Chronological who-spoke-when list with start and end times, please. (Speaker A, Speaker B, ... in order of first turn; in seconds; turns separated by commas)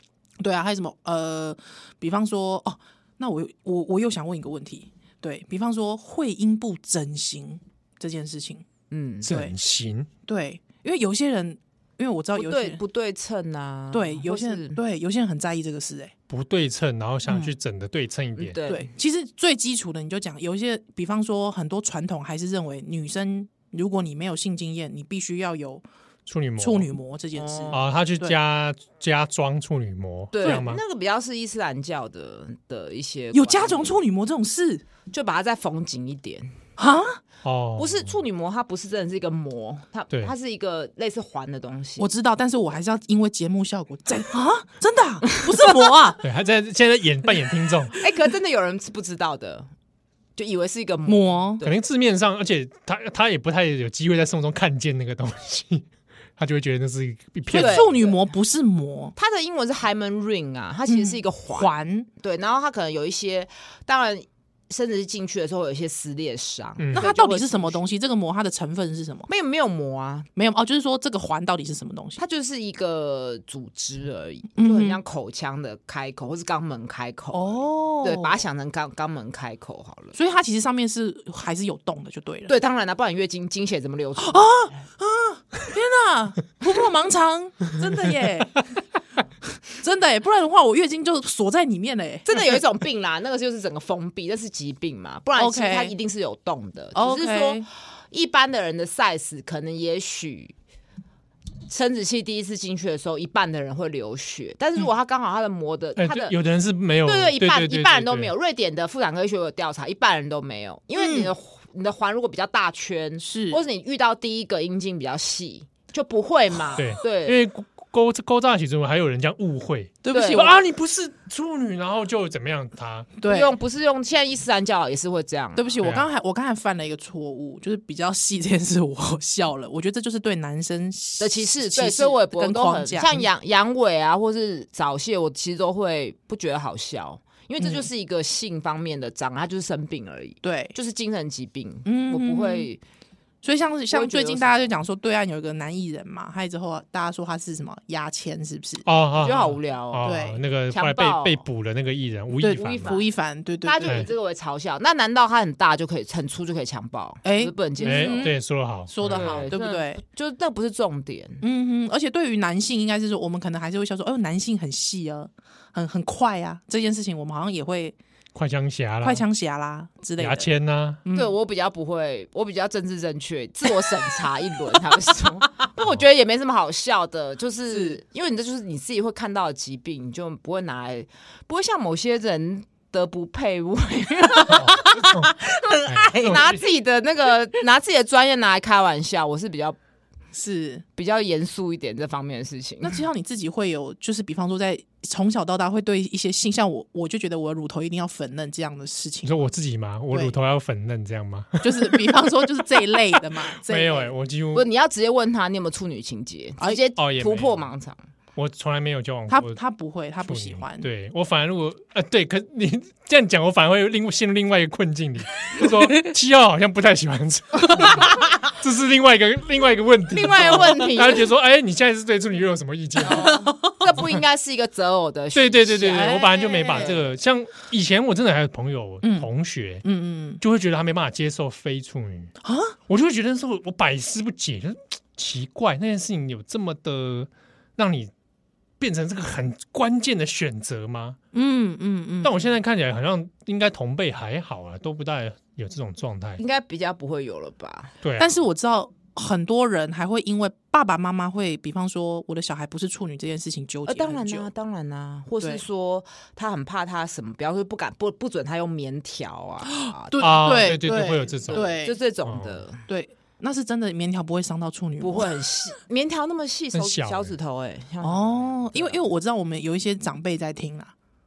Speaker A: 0.4-8.7, Speaker B: 8.9-9.3, Speaker C: 9.2-10.1, Speaker A: 10.3-12.8, Speaker B: 12.3-14.8, Speaker A: 13.9-16.1, Speaker C: 16.3-18.6, Speaker A: 17.3-17.5, Speaker B: 18.4-18.9, Speaker A: 18.6-25.9, Speaker C: 26.3-26.9, Speaker A: 26.6-28.4, Speaker B: 27.4-27.8, Speaker C: 27.7-30.8, Speaker B: 30.3-34.0, Speaker A: 33.3-34.8, Speaker B: 35.1-36.5, Speaker A: 36.8-37.2, Speaker C: 37.4-38.1, Speaker B: 37.8-42.1, Speaker A: 42.0-46.2, Speaker C: 46.2-47.9, Speaker B: 48.0-49.7, Speaker B: 50.4-51.8, Speaker A: 51.1-51.6, Speaker C: 51.6-57.9, Speaker A: 57.5-59.1, Speaker B: 57.5-58.1, Speaker B: 59.2-67.8, Speaker A: 60.9-62.1, Speaker C: 66.8-67.1, Speaker A: 66.9-69.3, Speaker B: 69.3-70.3, Speaker A: 70.4-72.2, Speaker B: 72.2-80.2, Speaker A: 74.6-75.0, Speaker A: 77.3-78.4, Speaker A: 80.2-82.5, Speaker B: 82.5-84.8, Speaker A: 84.2-88.6, Speaker A: 89.7-92.5, Speaker B: 92.3-100.5, Speaker A: 95.4-95.9, Speaker A: 97.0-97.7, Speaker B: 101.7-106.3, Speaker C: 106.0-108.3, Speaker B: 107.1-117.4, Speaker A: 111.0-111.3, Speaker A: 113.2-113.6, Speaker C: 116.8-123.1, Speaker A: 120.0-120.6, Speaker B: 120.1-120.5, Speaker A: 123.2-123.5, Speaker B: 123.3-125.8, Speaker A: 125.6-133.3, Speaker C: 125.8-126.1, Speaker B: 131.2-142.8, Speaker A: 137.6-137.9, Speaker A: 140.4-140.8, Speaker A: 141.9-142.7, Speaker A: 143.4-148.8, Speaker B: 143.9-144.7, Speaker C: 148.9-152.9, Speaker B: 149.2-150.1, Speaker A: 150.0-150.4, Speaker B: 150.7-151.4, Speaker A: 152.4-154.1, Speaker B: 152.6-153.1, Speaker B: 153.6-158.3, Speaker A: 157.2-158.4, Speaker C: 157.8-159.5, Speaker A: 158.9-160.0, Speaker B: 159.1-161.4, Speaker A: 161.4-168.0, Speaker C: 168.3-169.2, Speaker A: 169.0-170.5, Speaker C: 170.2-171.0, Speaker A: 171.0-171.3, Speaker B: 171.1-185.2, Speaker A: 177.7-178.0, Speaker A: 184.4-186.4, Speaker C: 184.5-186.6, Speaker B: 186.1-189.8, Speaker A: 190.3-190.8, Speaker B: 191.0-193.0, Speaker A: 192.8-199.3, Speaker C: 199.2-203.0, Speaker A: 200.1-200.4, Speaker A: 201.6-204.1, Speaker C: 203.7-204.7, Speaker B: 204.5-208.0, Speaker C: 207.0-207.7, Speaker C: 208.4-209.6, Speaker A: 209.3-210.9, Speaker C: 210.2-223.4, Speaker B: 220.1-221.3, Speaker A: 220.4-220.9, Speaker A: 223.1-223.8, Speaker B: 223.2-227.1, Speaker C: 223.9-224.2, Speaker C: 225.3-229.8, Speaker A: 225.9-227.0, Speaker A: 229.0-229.3, Speaker A: 229.8-230.4, Speaker C: 230.4-232.3, Speaker A: 232.4-232.8, Speaker C: 232.9-238.1, Speaker C: 238.8-241.2, Speaker A: 241.3-242.5, Speaker C: 242.2-246.4, Speaker B: 246.4-247.9, Speaker C: 248.0-248.4, Speaker A: 248.2-254.5, Speaker B: 253.9-260.8, Speaker A: 259.8-262.0, Speaker C: 260.2-262.6, Speaker B: 261.5-262.8, Speaker A: 262.9-265.3, Speaker B: 265.0-269.0, Speaker C: 266.7-267.3, Speaker A: 268.0-270.9